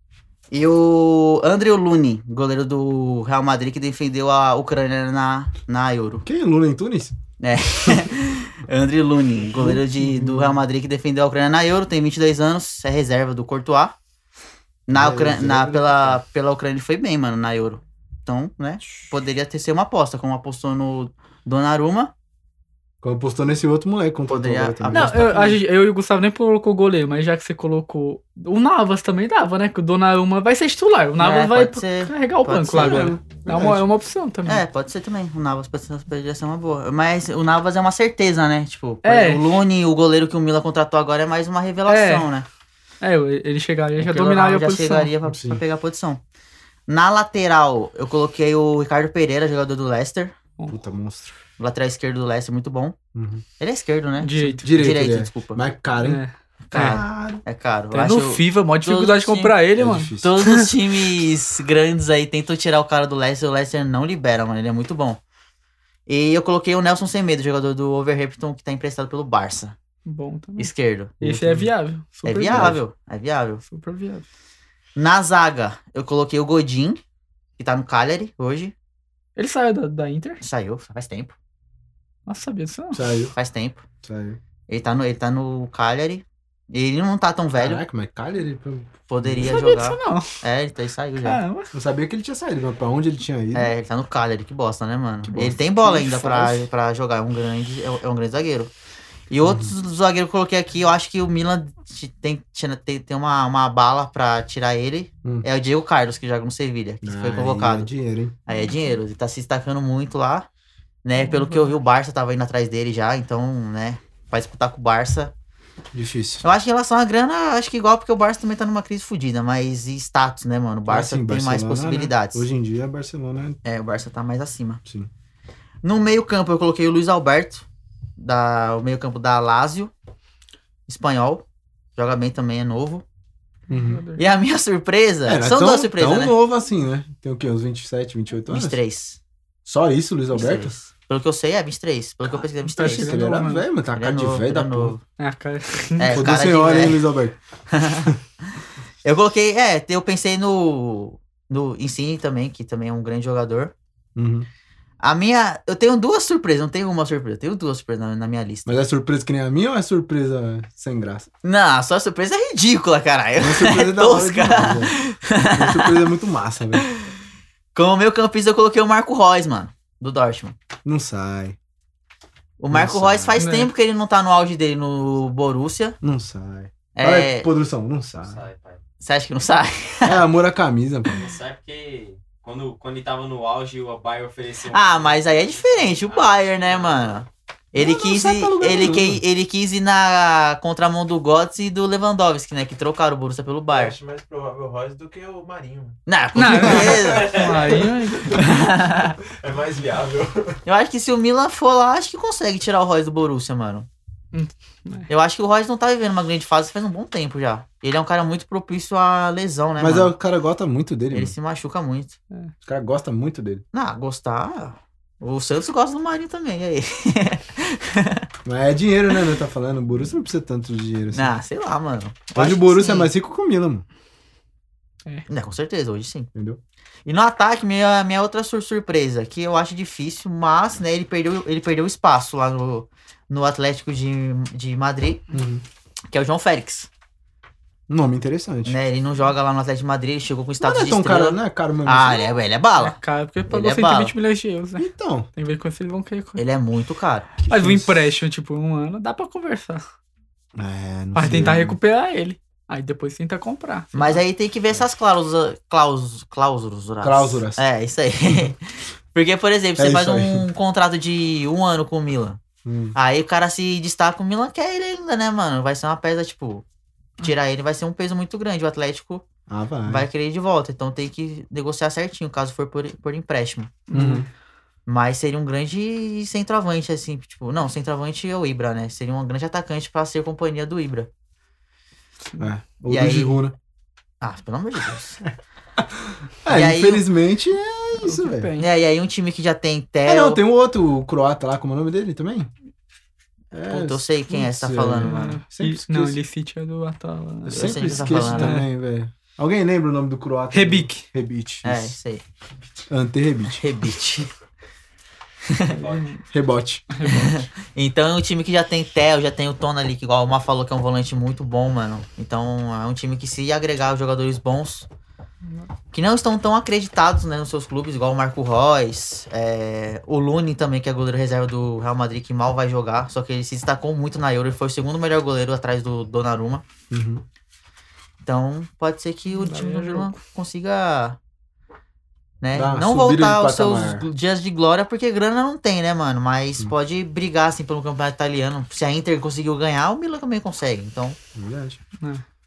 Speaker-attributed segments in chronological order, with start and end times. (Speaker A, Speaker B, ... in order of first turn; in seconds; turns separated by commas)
Speaker A: 0.5-6.3, Speaker B: 6.2-7.2, Speaker A: 7.4-13.9, Speaker B: 9.5-10.6, Speaker A: 14.9-22.1, Speaker B: 14.9-16.2, Speaker B: 23.0-25.5, Speaker A: 24.3-25.6, Speaker C: 24.9-34.6, Speaker A: 31.2-33.2, Speaker B: 33.5-33.8, Speaker A: 34.5-42.5, Speaker C: 39.0-39.6, Speaker C: 41.9-42.3, Speaker C: 43.0-45.1, Speaker A: 44.0-46.2, Speaker B: 45.3-45.6, Speaker A: 46.9-50.4, Speaker B: 50.7-51.4, Speaker A: 51.6-53.0, Speaker B: 53.1-53.4, Speaker A: 53.6-55.6, Speaker C: 54.2-54.7, Speaker B: 54.6-56.2, Speaker C: 56.0-57.0, Speaker A: 56.7-59.6, Speaker B: 56.7-57.4, Speaker C: 57.9-60.7, Speaker B: 59.8-60.3, Speaker A: 60.2-65.2, Speaker A: 66.1-69.8, Speaker C: 70.1-72.8, Speaker A: 70.6-71.1, Speaker B: 71.2-71.7, Speaker A: 72.2-73.6, Speaker B: 72.5-72.8, Speaker C: 73.7-74.2, Speaker A: 75.0-77.0, Speaker A: 77.6-78.7, Speaker C: 79.4-80.4, Speaker A: 80.4-81.3, Speaker C: 82.3-83.0, Speaker B: 82.9-83.3, Speaker A: 83.3-83.8, Speaker B: 84.0-84.4, Speaker A: 84.7-87.8, Speaker B: 87.6-89.6, Speaker A: 89.1-91.4, Speaker C: 89.4-90.3, Speaker C: 91.2-91.7, Speaker B: 91.7-93.7, Speaker A: 93.5-98.7, Speaker B: 95.3-95.6, Speaker C: 95.7-96.7, Speaker A: 99.3-107.9, Speaker B: 99.4-99.7, Speaker B: 107.0-108.3, Speaker A: 108.5-110.5, Speaker A: 111.0-115.3, Speaker C: 111.2-111.8, Speaker B: 115.9-116.4, Speaker A: 116.4-122.5, Speaker B: 120.9-123.6, Speaker A: 123.6-124.8, Speaker A: 125.8-127.7, Speaker A: 128.2-129.9, Speaker A: 130.9-131.4, Speaker A: 132.0-133.1, Speaker B: 133.7-134.0, Speaker C: 133.7-134.2, Speaker A: 134.2-136.4, Speaker B: 135.3-138.8, Speaker A: 138.5-139.2, Speaker B: 139.7-140.7, Speaker A: 140.3-143.2, Speaker C: 142.6-143.7, Speaker B: 142.8-145.0, Speaker A: 143.9-145.0, Speaker C: 145.2-146.2, Speaker A: 146.0-147.1, Speaker B: 146.1-147.4, Speaker A: 147.7-148.2, Speaker A: 149.0-153.7, Speaker B: 154.2-154.5, Speaker A: 155.0-158.8, Speaker B: 158.7-161.3, Speaker A: 161.4-166.1, Speaker B: 163.4-164.9, Speaker B: 165.5-166.8, Speaker A: 166.8-167.1, Speaker A: 167.7-170.6, Speaker B: 170.8-171.6, Speaker A: 172.6-176.0, Speaker B: 172.7-173.5, Speaker C: 173.4-173.7, Speaker B: 176.0-178.4, Speaker A: 176.9-177.5, Speaker D: 178.2-178.8, Speaker A: 179.0-180.2, Speaker B: 180.1-181.2, Speaker D: 181.1-187.2, Speaker A: 184.7-194.0, Speaker B: 187.8-189.2, Speaker E: 193.7-196.0, Speaker A: 196.1-199.2, Speaker C: 196.4-198.5, Speaker B: 196.4-197.0, Speaker E: 196.8-200.6, Speaker A: 200.7-203.9, Speaker C: 204.3-205.1, Speaker A: 205.1-210.1, Speaker B: 209.8-211.3, Speaker A: 211.1-212.2, Speaker B: 212.6-213.6, Speaker A: 213.7-218.2, Speaker B: 218.4-221.4, Speaker A: 221.1-223.1, Speaker B: 222.4-223.8, Speaker A: 225.3-226.3, Speaker B: 226.3-226.6, Speaker A: 227.1-235.2, Speaker B: 235.3-235.6, Speaker A: 236.1-236.9, Speaker B: 237.9-238.8, Speaker A: 238.7-243.0, Speaker B: 240.6-242.3, Speaker C: 242.8-246.4, Speaker A: 243.5-244.2, Speaker B: 244.8-245.3, Speaker A: 246.4-247.3, Speaker B: 247.4-248.1, Speaker C: 247.5-249.8, Speaker B: 250.6-251.8, Speaker C: 251.2-254.2, Speaker A: 253.9-262.4, Speaker B: 257.0-257.6, Speaker B: 259.8-260.5, Speaker B: 262.6-262.9, Speaker A: 262.9-266.6, Speaker A: 267.2-269.2, Speaker B: 269.5-270.1, Speaker A: 269.9-273.8, Speaker C: 273.9-274.3, Speaker B: 273.9-274.3, Speaker A: 274.9-281.1, Speaker B: 282.4-283.6, Speaker A: 282.9-283.4, Speaker A: 284.2-285.2, Speaker B: 285.8-288.5, Speaker A: 286.5-287.1, Speaker C: 288.0-288.7, Speaker A: 288.6-290.4, Speaker B: 290.1-292.5, Speaker B: 293.5-296.2, Speaker A: 293.7-295.4, Speaker C: 295.1-298.7, Speaker B: 297.4-301.9, Speaker A: 297.5-298.6, Speaker C: 300.5-301.1, Speaker A: 301.6-302.2, Speaker B: 302.9-303.6, Speaker A: 303.6-304.3, Speaker A: 305.5-305.8, Speaker C: 305.8-306.2, Speaker D: 305.8-306.0, Speaker B: 306.3-306.9, Speaker C: 306.9-307.4, Speaker A: 307.0-314.9, Speaker A: 315.9-326.6, Speaker B: 326.9-327.2, Speaker A: 328.2-331.2, Speaker C: 329.3-330.1, Speaker A: 332.4-341.2, Speaker B: 332.5-334.1, Speaker B: 341.4-341.8